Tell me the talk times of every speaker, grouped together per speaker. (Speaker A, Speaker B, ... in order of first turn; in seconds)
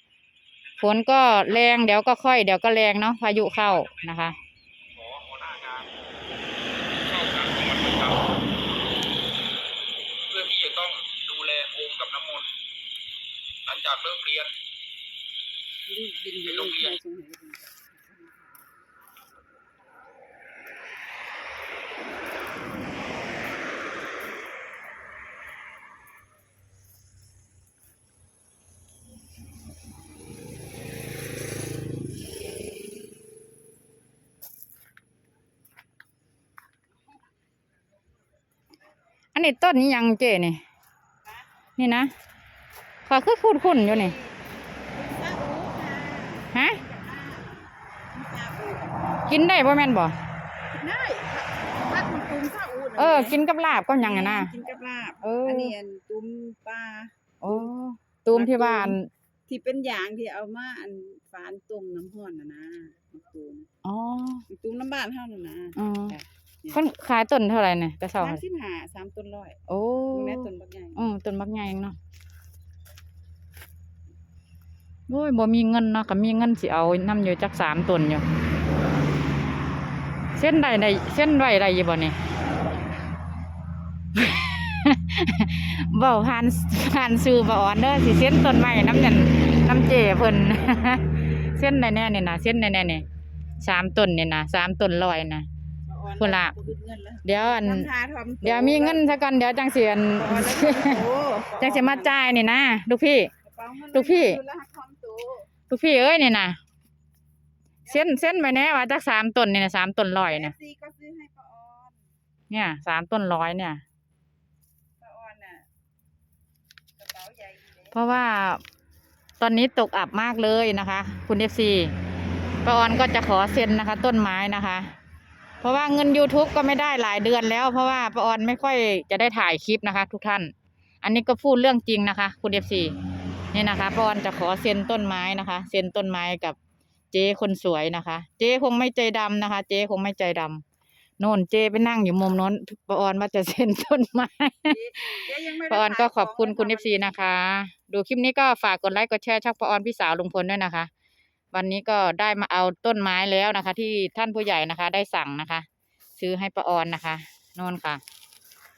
Speaker A: 0.6-1.0, 3.3-5.9, 6.8-8.3, 10.3-12.5, 13.7-14.5, 16.4-17.0
Speaker B: 0.8-4.3, 39.3-40.6, 41.8-42.1, 43.0-44.1, 46.5-46.8, 49.3-50.1, 53.0-54.5, 55.2-55.7, 57.4-59.1, 63.8-64.4, 65.8-66.2, 66.7-68.4, 69.7-72.0, 75.1-78.2, 80.4-82.2, 84.1-93.0, 93.6-95.5, 96.2-96.5, 97.2-97.9, 98.4-101.0, 101.6-103.3, 103.9-104.4, 105.7-106.6, 107.9-110.5, 112.5-113.8, 117.9-118.6, 119.4-121.9, 122.6-124.9, 125.6-132.9, 133.5-136.6, 137.1-140.6, 141.2-150.9, 151.5-155.7, 156.2-158.0
Speaker C: 15.9-18.6, 43.5-44.4, 44.9-49.1, 50.7-53.4, 54.0-57.7, 58.3-59.0, 59.5-63.7, 64.5-66.8, 68.2-69.6, 70.1-71.1, 95.9-99.1, 100.2-102.2, 103.4-105.5, 107.8-108.5, 110.3-112.0, 115.0-115.7, 117.0-118.0, 144.7-147.2